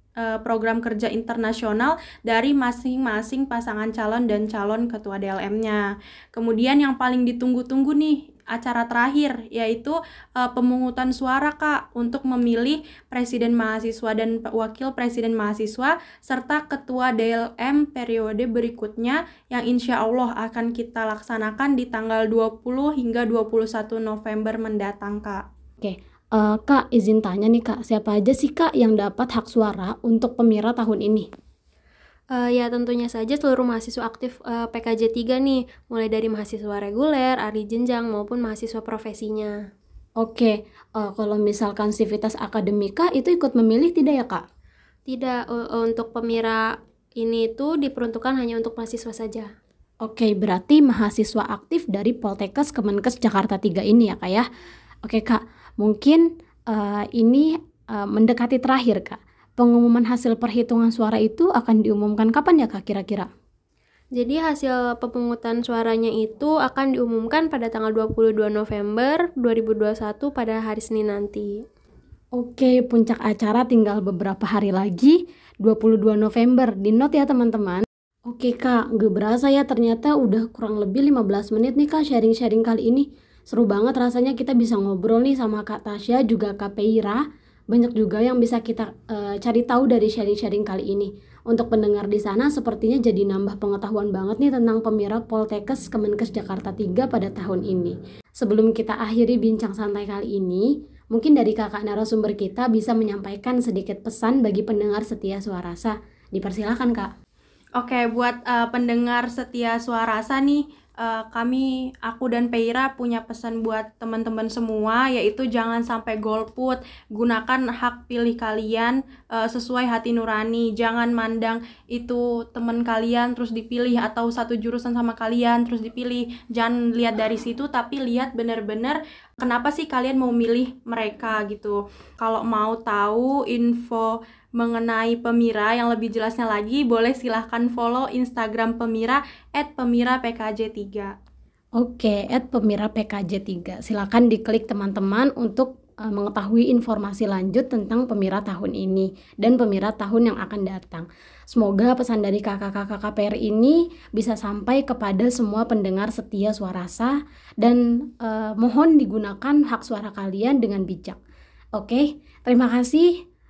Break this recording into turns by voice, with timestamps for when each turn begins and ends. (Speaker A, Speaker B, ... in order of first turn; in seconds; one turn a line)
Speaker A: 0.2-25.4
Speaker B: 25.8-31.3
Speaker C: 32.3-39.6
Speaker B: 40.2-44.4
Speaker C: 45.1-46.6
Speaker C: 47.2-49.5
Speaker B: 50.0-54.5
Speaker B: 55.0-63.3
Speaker C: 64.2-71.5
Speaker B: 72.4-107.1
Speaker A: 107.8-141.1
Speaker B: 141.8-161.2
Speaker B: 161.8-163.1